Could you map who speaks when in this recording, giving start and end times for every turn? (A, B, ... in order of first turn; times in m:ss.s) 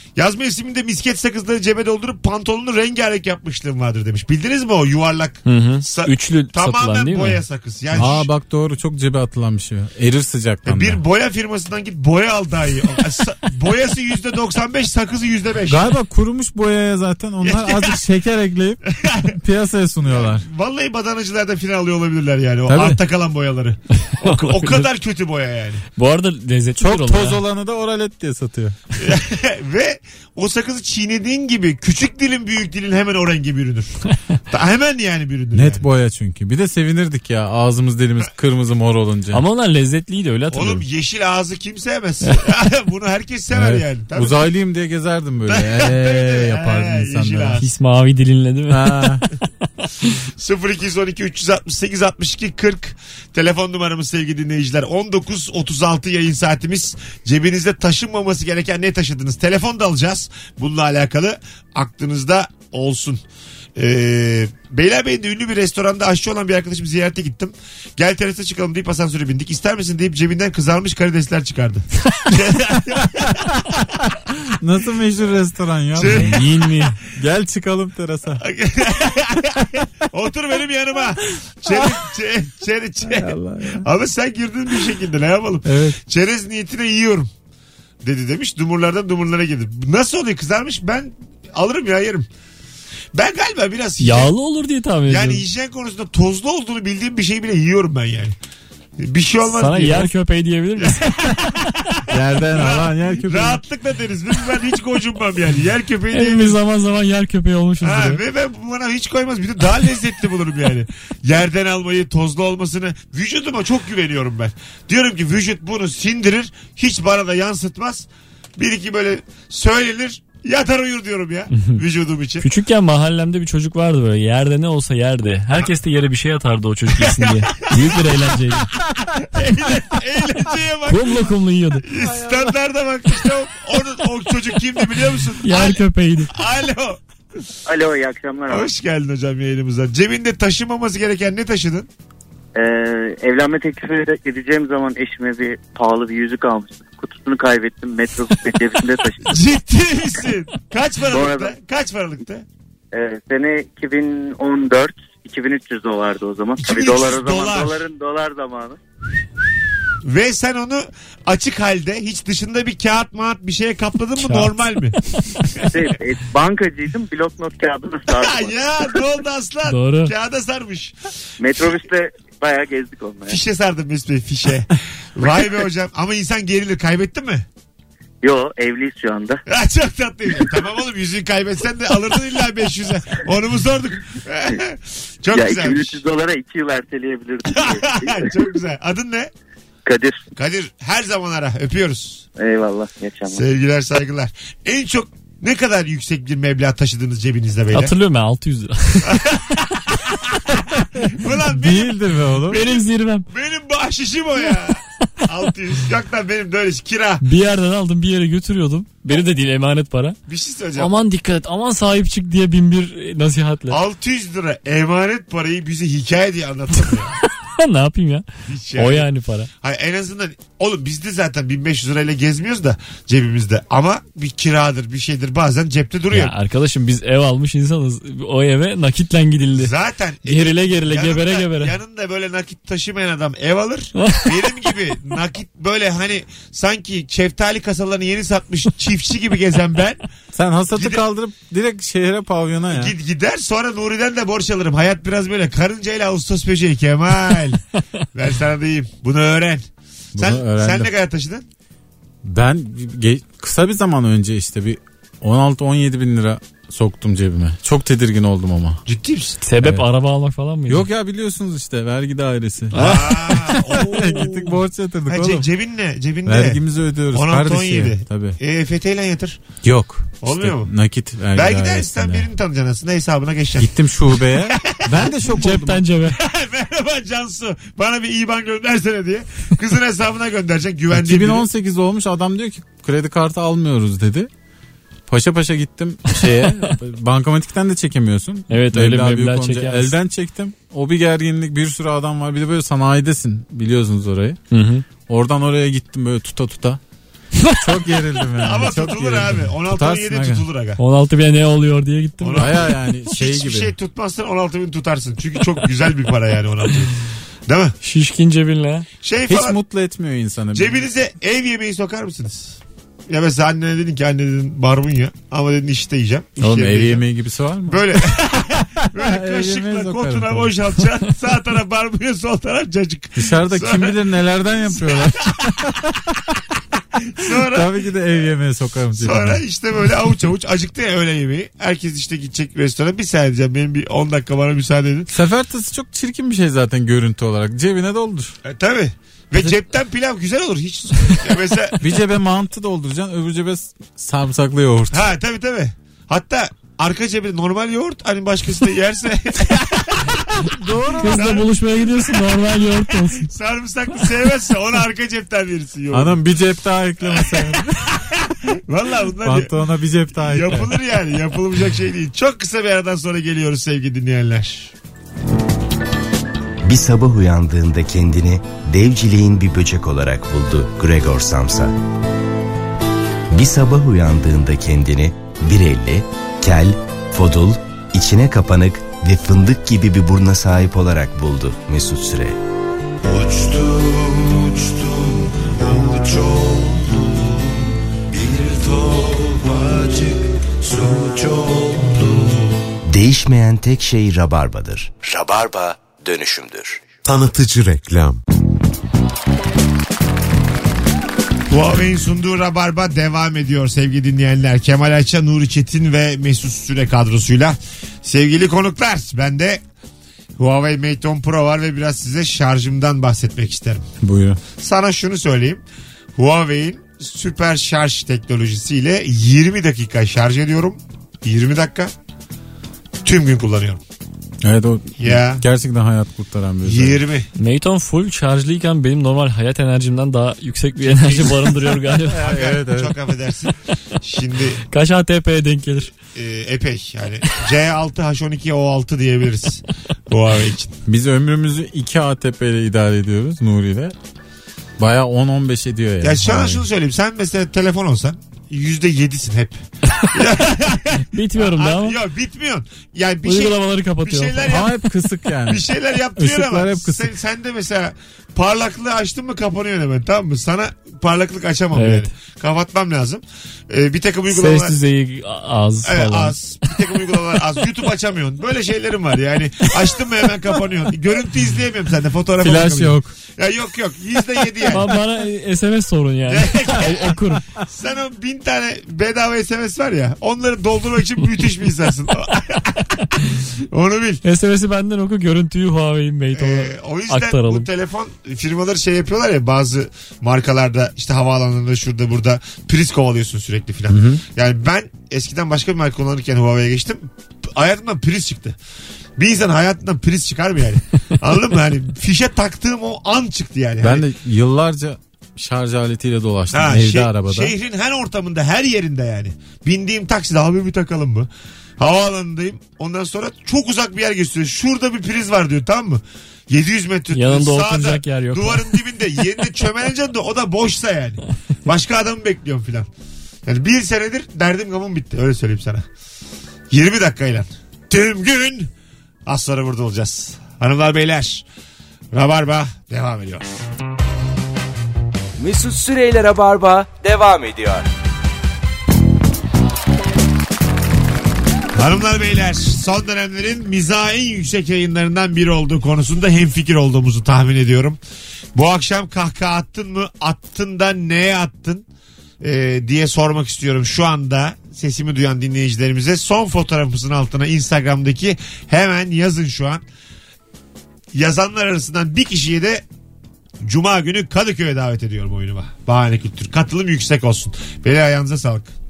0:00.2-0:08.3 A
0:05.5-0:07.4 B
0:07.9-0:11.0 C
0:10.7-0:15.9 A
0:15.7-0:20.5 C
0:17.4-0:18.0 A
0:19.0-0:19.4 A
0:20.1-0:25.8 A
0:22.7-0:23.0 C
0:24.2-0:24.9 B
0:26.0-0:27.4 B
0:26.8-0:28.8 C
0:29.0-0:35.8 A
0:35.5-0:39.4 C
0:39.3-0:40.8 B
0:40.5-0:44.5 A
0:43.5-0:47.6 C
0:45.5-0:47.7 A
0:47.6-0:49.3 B
0:48.7-0:49.2 C
0:50.4-1:03.2 A
1:03.8-1:13.6 A
1:14.5-1:16.5 C
1:16.0-1:17.0 A
1:16.0-1:17.0 B
1:17.1-1:18.4 C
1:18.4-1:27.3 A
1:23.0-1:23.9 C
1:25.6-1:26.0 C
1:28.0-1:32.3 A
1:33.1-1:34.3 A
1:34.0-1:35.4 B
1:35.1-1:38.3 A
1:39.0-1:40.1 A
1:39.5-1:41.6 B
1:40.8-1:46.6 A
1:42.1-1:43.6 C
1:46.1-1:48.2 B
1:47.8-2:02.5 A
2:01.5-2:01.8 B
2:02.4-2:08.7 B
2:06.9-2:11.3 A
2:10.9-2:11.9 B
2:11.8-2:17.4 A
2:15.4-2:16.3 B
2:17.7-2:18.7 D
2:18.5-2:21.9 A
2:22.6-2:29.4 D
2:29.2-2:32.4 A
2:31.1-2:31.6 D
2:32.9-2:38.8 D
2:36.6-2:37.8 A
2:40.0-2:45.0 A
2:44.2-2:44.5 B
2:45.6-2:48.5 D
2:48.1-2:50.9 A
2:49.6-2:50.1 B
2:51.4-2:53.4 D
2:53.3-2:57.4 A
2:58.2-2:59.4 D
2:59.5-3:06.0 A
3:05.3-3:08.3 D
3:07.5-3:09.3 A
3:09.8-3:10.2 D
3:10.4-3:12.2 A
3:12.4-3:13.4 D
3:13.3-3:18.0 A
3:17.7-3:19.2 B
3:19.0-3:27.2 A
3:21.4-3:22.6 C
3:22.5-3:23.3 B
3:27.2-3:30.2 B
3:30.3-3:30.9 A
3:30.8-3:33.8 B
3:33.7-3:37.2 A
3:37.4-3:39.5 B
3:38.5-3:39.1 A
3:39.6-3:46.3 A
3:46.1-3:49.7 B
3:49.6-4:00.0 A
3:50.2-3:51.8 B
3:54.0-3:54.6 B
4:00.3-4:03.0 C
4:00.7-4:01.0 A
4:02.7-4:07.6 A
4:08.2-4:09.6 A
4:10.2-4:10.9 C
4:10.2-4:11.4 A
4:12.2-4:18.8 C
4:18.9-4:19.4 A
4:19.4-4:20.9 B
4:19.6-4:19.9 C
4:20.7-4:25.5 C
4:22.7-4:23.8 B
4:22.8-4:29.4 A
4:26.3-4:28.4 C
4:29.6-4:32.3 C
4:30.2-4:30.7 A
4:31.3-4:33.7 A
4:33.6-4:35.9 C
4:34.3-4:35.1 A
4:35.3-4:36.2 B
4:36.1-4:41.5 A
4:40.9-4:44.3 C
4:45.1-4:54.4 C
4:46.2-4:46.8 B
4:48.5-4:49.9 B
4:54.5-4:54.8 B
4:55.1-4:56.8 C
4:57.4-4:57.6 B
4:57.6-5:00.4 C
4:58.4-5:00.8 A
5:00.8-5:02.7 B
5:02.2-5:07.8 A
5:02.4-5:03.8 C
5:07.8-5:08.9 B
5:09.0-5:09.6 A
5:09.3-5:10.8 C
5:10.5-5:17.0 A
5:16.4-5:18.3 C
5:17.7-5:24.0 A
5:18.8-5:20.6 C
5:23.2-5:26.2 C
5:24.7-5:25.8 A
5:27.0-5:27.7 A
5:27.3-5:29.4 C
5:29.0-5:35.1 A
5:35.1-5:38.4 C
5:38.4-5:41.9 A
5:41.8-5:45.1 C
5:44.9-5:50.5 A
5:50.4-5:51.4 C
5:51.0-5:53.3 B
5:51.0-5:56.2 A
5:55.9-5:58.0 C
5:57.0-5:59.6 A
5:59.2-6:00.8 C
6:00.2-6:04.7 A
6:06.6-6:11.8 E
6:13.3-6:22.4 E
6:23.0-6:32.6 F
6:32.8-6:36.8 E
6:37.0-6:38.2 F
6:41.5-6:49.6 A
6:50.4-6:53.8 A
6:54.0-6:54.4 C
6:54.6-6:55.6 A
6:56.2-7:01.9 A
7:03.0-7:03.8 A
7:04.4-7:07.0 C
7:05.0-7:05.4 A
7:06.6-7:07.3 A
7:07.4-7:12.2 B
7:11.0-7:13.1 C
7:12.2-7:14.6 A
7:14.7-7:15.9 B
7:16.0-7:20.7 A
7:20.9-7:24.0 C
7:24.8-7:26.7 C
7:26.0-7:34.7 A
7:31.0-7:32.0 B
7:33.2-7:34.8 B
7:34.5-7:37.1 C
7:35.5-7:44.8 A
7:41.7-7:42.1 B
7:44.3-7:46.4 B
7:45.9-7:54.9 A
7:52.4-7:53.2 C
7:54.7-7:57.4 B
7:56.3-8:04.2 A
8:04.2-8:07.7 B
8:06.4-8:18.6 A
8:13.9-8:14.2 C
8:19.2-8:24.0 A
8:23.8-8:27.6 C
8:26.5-8:42.9 A
8:37.1-8:39.0 B
8:43.5-8:45.8 A
8:46.7-8:48.7 A
8:49.3-8:51.4 A
8:52.1-8:53.5 A
8:55.4-8:57.9 G
9:01.7-9:08.0 A
9:08.6-9:11.9 A
9:12.4-9:19.8 A
9:21.1-9:22.8 A
9:23.6-9:28.7 A